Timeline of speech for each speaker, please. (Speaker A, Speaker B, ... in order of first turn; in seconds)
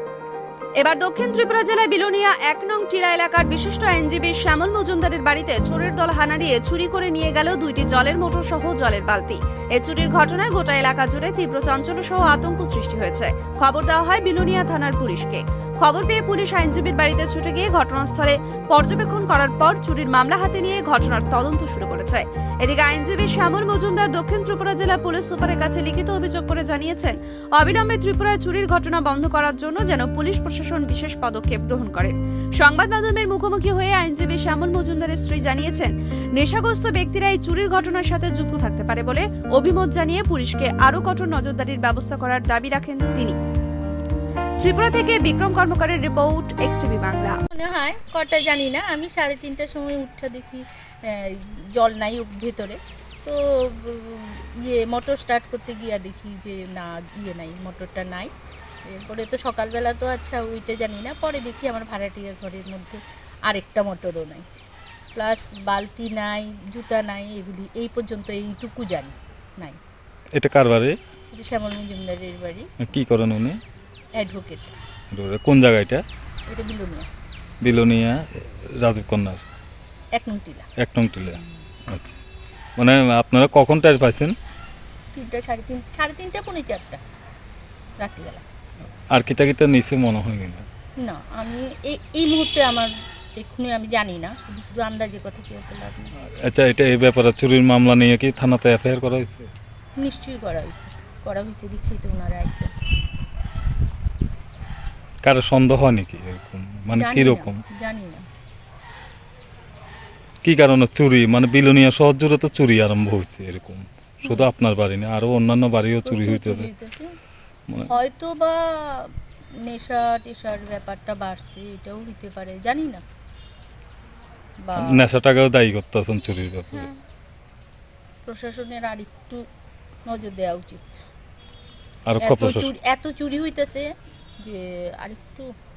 Speaker A: 0.8-43.4, 44.6-47.4
Speaker B: 47.5-58.3, 58.9-64.5, 65.2-69.8, 71.3-72.7, 74.2-74.8, 76.5-77.1, 80.2-80.7, 85.1-87.0, 88.0-88.4, 91.0-96.1, 100.0-102.7, 106.9-108.2, 114.2-114.5, 116.0-117.1, 117.8-119.1, 119.7-123.0, 124.6-125.0, 126.7-127.0, 128.2-129.4, 130.1-131.0, 132.2-133.9, 134.4-135.5
Speaker C: 70.4-71.0, 72.8-73.6, 75.1-76.0, 77.6-79.4, 80.8-82.2, 82.8-84.4, 89.1-90.6, 96.5-99.5, 105.2-107.6, 110.4-116.7, 124.8-126.9, 132.1-132.7